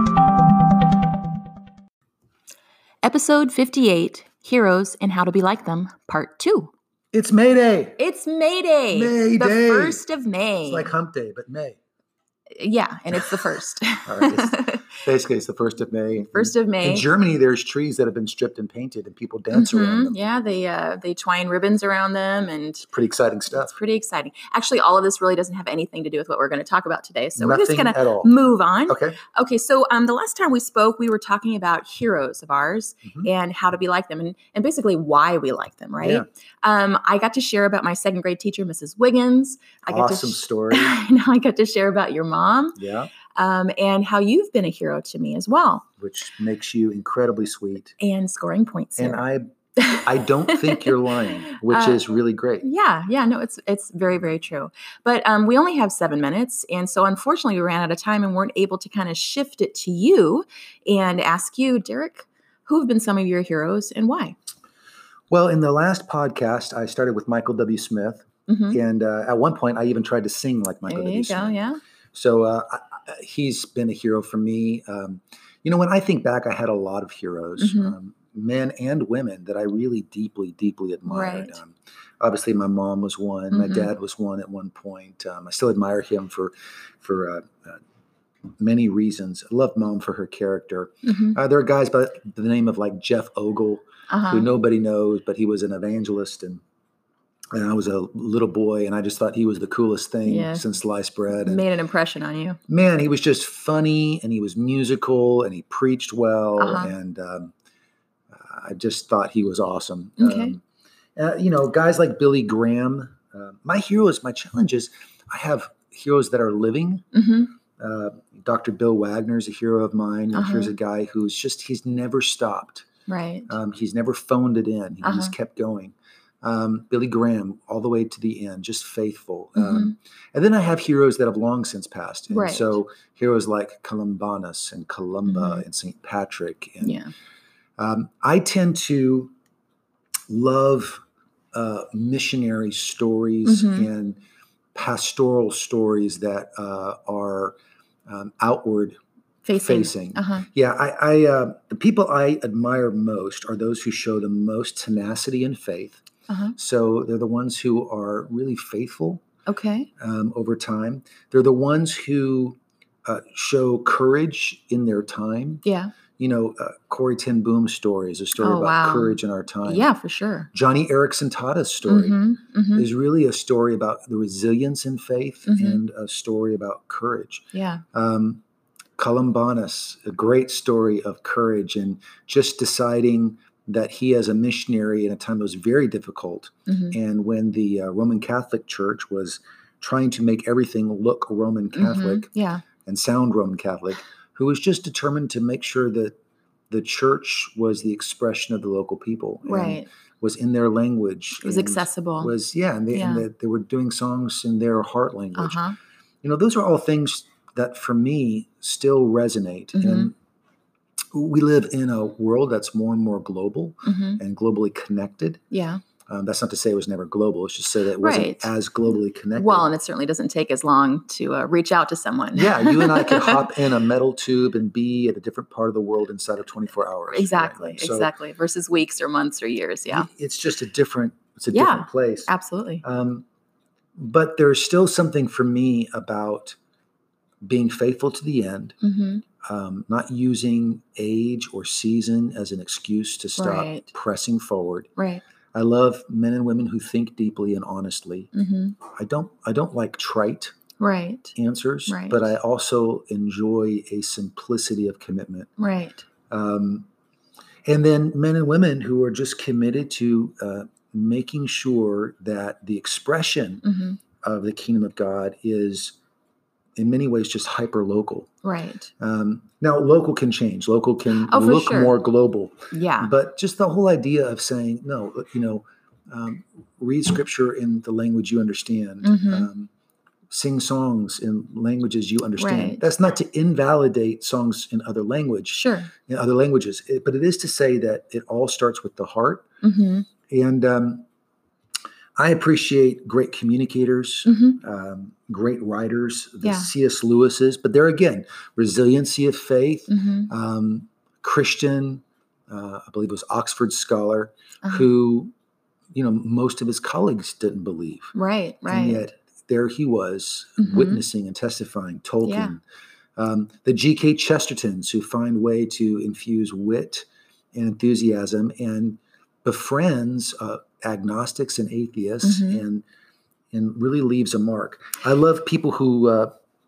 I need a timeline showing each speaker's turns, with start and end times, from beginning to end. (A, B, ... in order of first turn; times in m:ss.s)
0:03.0-0:06.7 A
0:07.1-0:08.0 B
0:08.0-0:10.9 A
0:08.9-0:10.0 B
0:10.6-0:11.8 B
0:12.6-0:14.9 A
0:14.1-0:20.2 B
0:16.2-0:17.0 A
0:19.5-0:22.9 A
0:22.9-0:23.7 B
0:23.5-0:42.8 A
0:27.4-0:28.3 B
0:28.9-0:29.2 B
0:36.0-0:36.2 B
0:39.9-0:41.0 B
0:42.8-0:43.1 B
0:43.3-0:45.9 A
0:46.0-0:47.9 B
0:48.0-0:49.2 A
0:49.0-0:52.6 B
0:49.8-0:51.0 A
0:51.5-0:52.0 A
0:52.6-1:04.4 A
1:05.3-1:11.6 B
1:08.5-1:08.8 A
1:10.8-1:11.8 A
1:12.1-1:27.8 B
1:17.6-1:17.9 A
1:21.0-1:21.6 A
1:23.5-1:23.9 A
1:28.6-1:36.6 B
1:31.0-1:31.4 A
1:34.1-1:34.5 A
1:37.5-1:41.6 B
1:40.2-1:40.6 A
1:41.3-1:42.6 A
1:42.7-1:47.5 B
1:46.6-1:46.9 A
1:48.3-1:50.6 B
1:50.2-1:50.5 A
1:51.2-1:57.0 B
1:57.1-1:57.5 A
1:57.8-2:02.8 B
2:00.3-2:00.7 A
2:03.1-2:03.5 A
2:03.5-2:17.0 B
2:05.0-2:05.3 A
2:09.6-2:09.9 A
2:12.3-2:12.8 A
2:15.2-2:15.6 A
2:16.8-2:17.1 A
2:17.8-2:19.3 B
2:20.3-2:21.0 B
2:21.5-2:24.2 B
2:23.4-2:23.9 A
2:24.7-2:27.5 B
2:28.1-2:29.0 B
2:29.4-2:30.5 A
2:29.6-2:36.0 B
2:36.3-2:36.6 A
2:36.6-2:39.2 B
2:39.4-2:39.9 A
2:40.0-2:45.6 B
2:45.6-2:45.9 A
2:46.2-2:49.9 B
2:48.4-2:50.5 A
2:50.5-2:52.2 B
2:51.8-2:52.9 A
2:52.7-2:58.4 B
2:55.4-2:55.8 A
2:57.5-2:57.8 A
2:59.0-3:12.3 B
3:06.7-3:07.0 A
3:11.7-3:12.6 A
3:12.8-3:16.1 B
3:16.7-3:25.6 B
3:19.4-3:19.9 A
3:21.4-3:22.3 A
3:22.9-3:23.2 A
3:25.4-3:25.8 A
3:26.2-3:30.1 B
3:29.7-3:30.1 A
3:31.1-3:35.4 B
3:33.8-3:34.2 A
3:35.5-3:35.8 A
3:36.1-3:39.7 B
3:38.0-3:38.5 A
3:39.4-3:43.4 A
3:42.3-3:48.1 B
3:47.1-3:50.1 A
3:49.9-3:52.3 B
3:51.5-3:52.8 A
3:52.8-3:53.2 B
3:54.0-3:56.6 B
3:57.4-3:58.7 B
3:58.8-3:59.2 A
3:59.4-4:04.9 B
4:03.4-4:03.9 A
4:05.0-4:05.2 A
4:05.5-4:08.3 B
4:08.3-4:08.8 A
4:08.9-4:10.5 B
4:10.8-4:11.3 A
4:11.3-4:15.5 B
4:11.9-4:12.3 A
4:15.6-4:16.0 A
4:16.3-4:16.8 B
4:17.6-4:23.6 B
4:23.6-4:24.0 A
4:24.2-4:26.0 B
4:26.8-4:28.3 B
4:28.4-4:28.9 A
4:29.0-4:39.7 B
4:31.1-4:31.9 A
4:32.7-4:33.1 A
4:39.0-4:39.5 A
4:40.3-4:49.5 B
4:42.4-4:42.8 A
4:45.5-4:45.9 A
4:49.6-4:50.1 A
4:50.3-4:51.0 B
4:52.2-5:05.3 B
4:54.2-4:54.6 A
4:56.4-4:56.7 A
4:59.9-5:00.3 A
5:05.9-5:08.1 B
5:08.1-5:09.0 A
5:08.7-5:12.6 B
5:10.6-5:11.0 A
5:12.2-5:12.6 A
5:13.2-5:22.8 B
5:22.2-5:22.6 A
5:23.5-5:26.3 B